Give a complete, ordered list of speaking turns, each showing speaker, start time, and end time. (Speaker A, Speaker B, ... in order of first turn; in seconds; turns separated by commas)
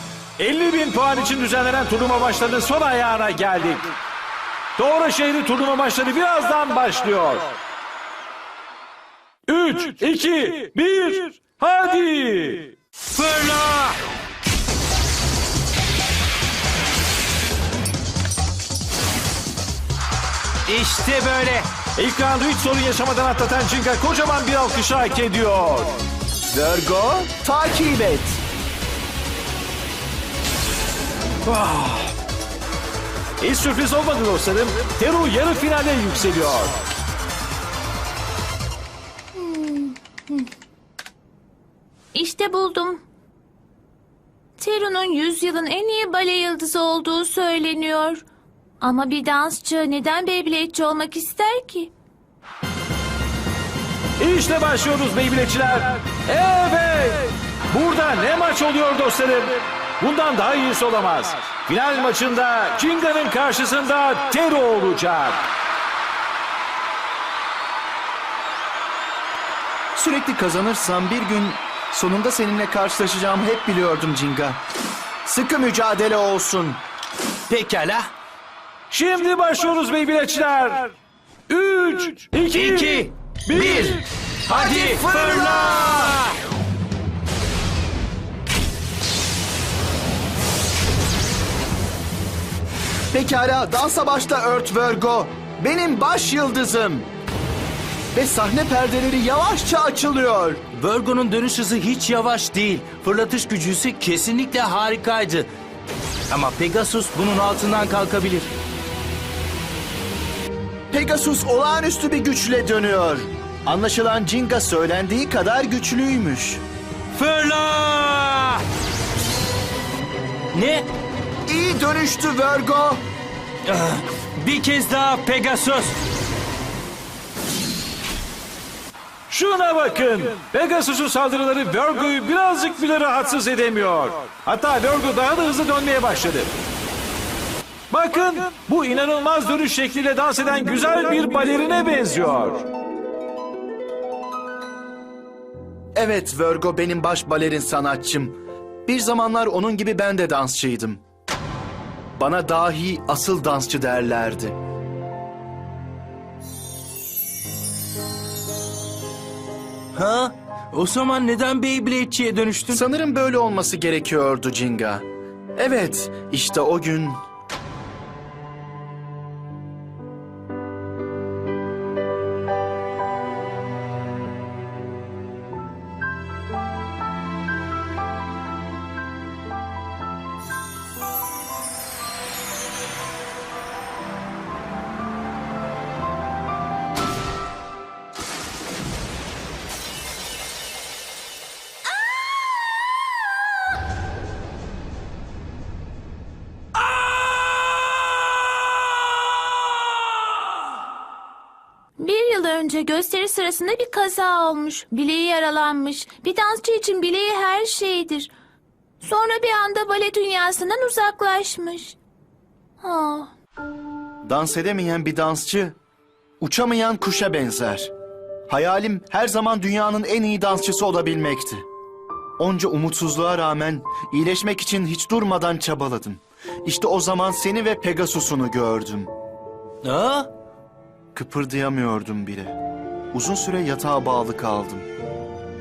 Speaker A: 0.4-3.9, Speaker A: 4.8-7.5, Speaker A: 9.5-12.7, Speaker B: 13.1-14.0, Speaker B: 20.6-21.7, Speaker A: 21.9-26.0, Speaker C: 26.5-28.4, Speaker A: 31.4-32.1, Speaker A: 33.4-36.8, Speaker D: 39.3-40.5, Speaker D: 42.1-43.0, Speaker D: 44.6-48.2, Speaker D: 48.8-51.9, Speaker A: 54.2-65.5, Speaker C: 70.0-74.6, Speaker C: 75.2-76.8, Speaker B: 77.5-78.1, Speaker A: 78.9-80.9, Speaker A: 81.5-84.0, Speaker B: 82.5-86.2, Speaker C: 84.5-86.2, Speaker C: 93.1-97.1, Speaker C: 98.1-100.6, Speaker B: 100.7-105.5, Speaker B: 106.3-108.5, Speaker C: 110.9-116.6, Speaker B: 117.1-118.6, Speaker B: 120.5-120.9, Speaker C: 121.5-123.0, Speaker B: 123.6-126.0, Speaker A: 129.3-136.5, Speaker A: 137.9-142.7, Speaker C: 145.9-151.0, Speaker C: 152.2-154.6, Speaker B: 159.9-162.8, Speaker C: 162.7-165.0, Speaker C: 165.6-167.2, Speaker D: 202.0-208.3, Speaker D: 209.0-212.0, Speaker D: 212.8-213.3, Speaker C: 214.2-215.8, Speaker C: 216.4-217.9, Speaker C: 218.5-221.7, Speaker C: 222.4-229.1, Speaker B: 229.8-230.3, Speaker C: 231.1-232.5, Speaker C: 233.1-234.9